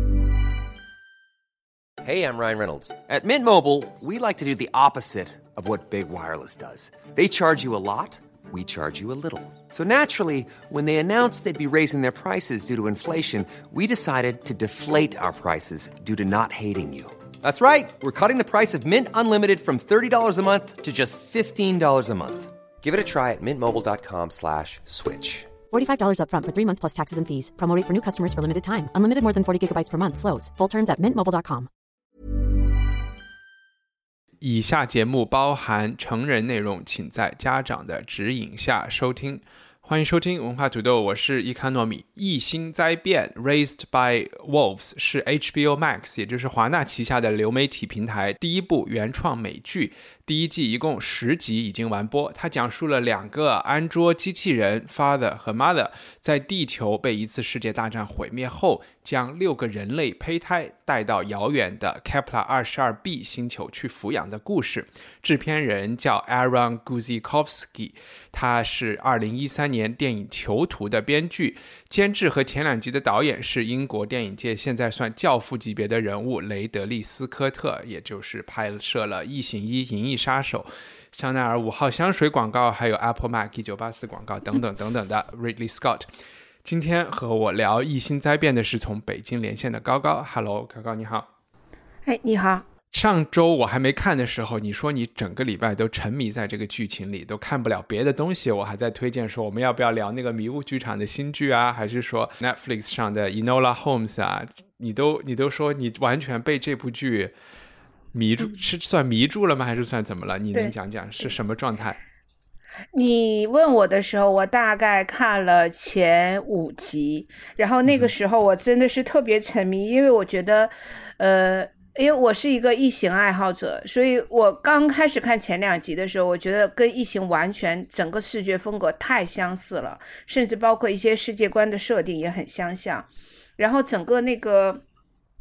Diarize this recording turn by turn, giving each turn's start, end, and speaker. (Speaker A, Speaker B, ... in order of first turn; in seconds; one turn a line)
Speaker A: 2.0-25.5
Speaker B: 25.7-31.7
Speaker C: 34.4-86.1
Speaker C: 86.6-91.3
Speaker D: 92.0-92.7
Speaker C: 92.9-107.3
Speaker C: 108.1-112.0
Speaker D: 112.9-133.1
Speaker D: 133.6-134.8